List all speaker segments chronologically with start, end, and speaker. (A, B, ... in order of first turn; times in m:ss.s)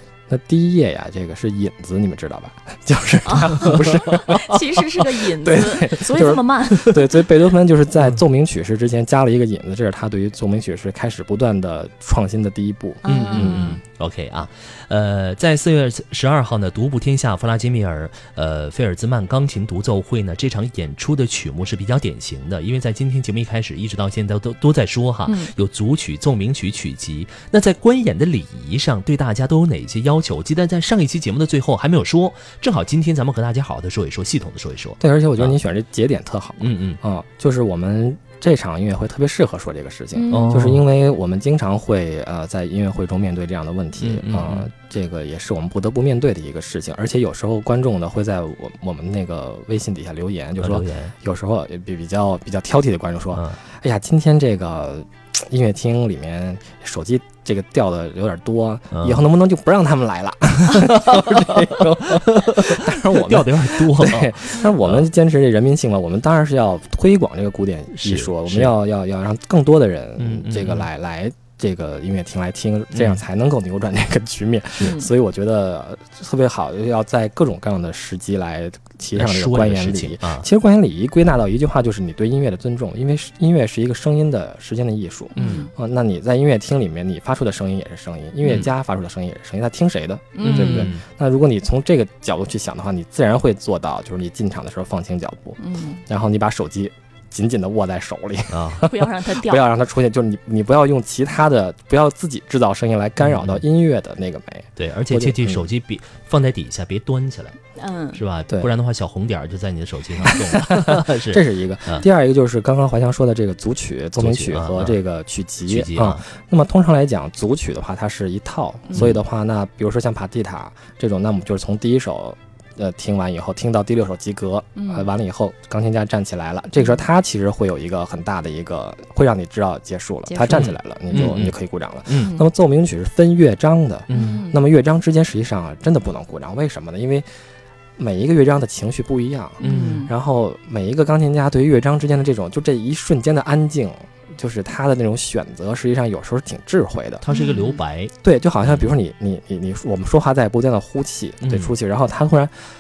0:00.3-0:13.8 A
0:03.2-0:07.0 B
0:03.6-0:04.0 C
0:13.0-0:13.8 B
0:13.1-0:35.5 C
0:25.2-0:25.5 B
0:35.0-1:45.7 A
0:36.6-0:37.0 C
0:40.1-0:40.7 B
0:40.3-0:40.8 C
0:44.0-0:44.7 C
0:50.6-0:51.1 C
0:58.9-0:59.2 C
1:00.8-1:05.0 C
1:07.9-1:08.7 C
1:10.2-1:10.9 C
1:12.9-1:13.2 C
1:14.8-1:15.1 B
1:19.2-1:20.4 C
1:25.3-1:25.7 B
1:25.4-1:25.6 C
1:30.4-1:30.9 B
1:30.4-1:31.0 C
1:35.6-1:36.0 B
1:38.5-1:38.9 C
1:38.8-1:39.6 B
1:43.2-1:43.6 C
1:44.8-1:47.6 C
1:47.8-1:48.2 B
1:48.1-1:52.0 C
1:50.2-2:17.2 A
1:54.2-1:55.0 C
1:55.7-1:56.2 C
2:04.8-2:05.1 B
2:10.3-2:10.6 B
2:10.5-2:11.5 C
2:12.2-2:12.4 B
2:14.1-2:14.4 C
2:14.1-2:14.6 B
2:18.0-2:27.2 A
2:19.6-2:20.1 B
2:19.6-2:20.0 C
2:27.2-2:28.1 C
2:27.3-2:27.8 B
2:28.2-2:32.5 A
2:31.4-2:31.7 C